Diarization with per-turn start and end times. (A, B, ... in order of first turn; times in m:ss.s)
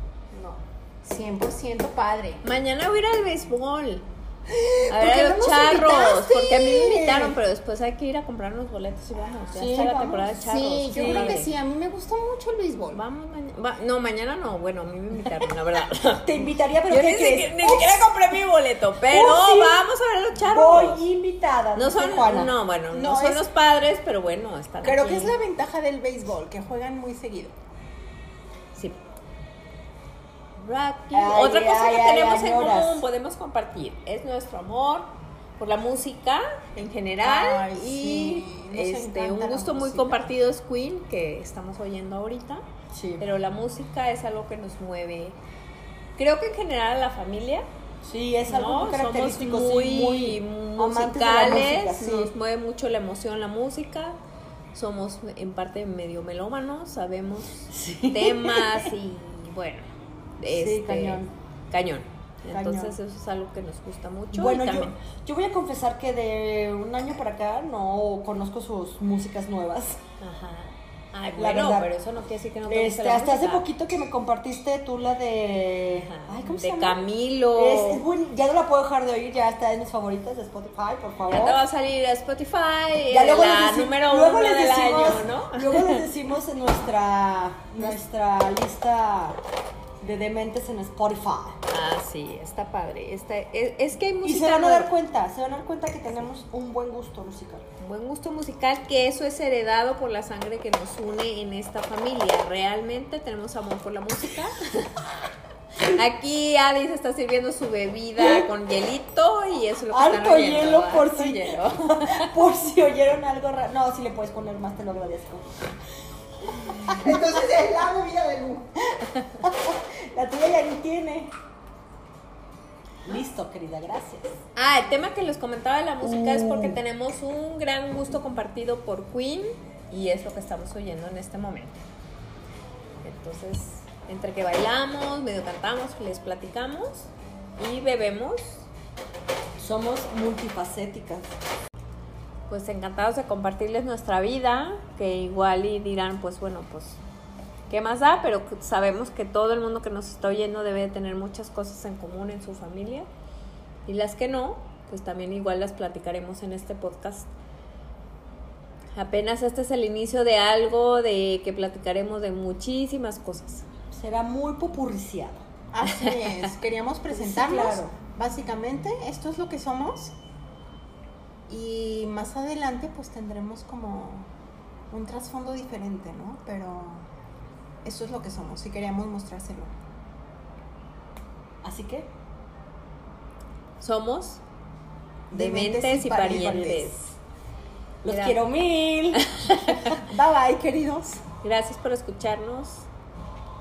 0:00.3-0:00.6 A
0:01.0-0:02.5 B
0:02.4-0:04.0 C
0:04.5-0:07.3 B
0:04.9-0:11.5 C
0:05.0-0:06.2 A
0:06.9-0:07.2 A
0:09.5-0:10.4 A
0:10.3-0:13.0 B
0:10.9-0:11.4 A
0:12.9-0:16.3 C
0:16.2-0:18.4 A
0:16.9-0:21.0 C
0:19.1-0:19.9 A
0:20.4-0:22.5 A
0:21.7-0:25.3 C
0:22.9-0:23.5 B
0:24.8-0:27.5 B
0:30.6-0:42.6 C
0:31.1-0:33.0 A
0:37.2-0:40.3 B
0:42.9-0:43.2 A
0:43.2-0:45.4 C
0:46.2-0:47.6 C
0:48.0-0:52.3 A
0:48.5-0:54.2 C
0:54.7-0:59.8 C
0:57.7-0:58.9 A
1:00.4-1:04.9 C
1:00.4-1:01.3 A
1:02.5-1:03.0 A
1:04.3-1:10.0 A
1:10.2-1:13.7 C
1:11.3-1:11.9 A
1:12.7-1:17.0 A
1:15.9-1:18.0 C
1:17.5-1:21.6 A
1:21.3-1:26.1 C
1:23.1-1:29.4 A
1:30.0-1:31.6 A
1:31.7-1:34.9 C
1:34.2-1:37.6 A
1:37.8-1:44.6 C
1:45.8-1:52.4 C
1:48.2-1:48.5 A
1:49.9-1:55.4 A
1:56.8-1:58.7 B
1:59.4-2:01.3 A
2:03.0-2:04.4 A
2:04.6-2:11.8 C
2:13.0-2:18.6 C
2:19.6-2:21.3 A
2:22.5-2:27.0 C
2:27.7-2:33.1 C
2:33.9-2:37.3 C
2:39.0-2:43.6 C
2:43.9-2:45.4 A
2:45.7-2:50.1 B
2:46.0-2:46.4 C
2:47.1-2:47.9 A
2:51.5-2:54.3 B
2:54.9-2:57.0 B
2:57.8-2:59.7 B
3:01.6-3:02.1 A
3:03.8-3:04.4 C
3:05.3-3:07.1 A
3:05.3-3:06.9 B
3:05.4-3:06.9 C
3:08.0-3:08.4 C
3:08.0-3:09.2 A
3:09.1-3:10.0 C
3:10.0-3:11.2 B
3:11.4-3:12.8 C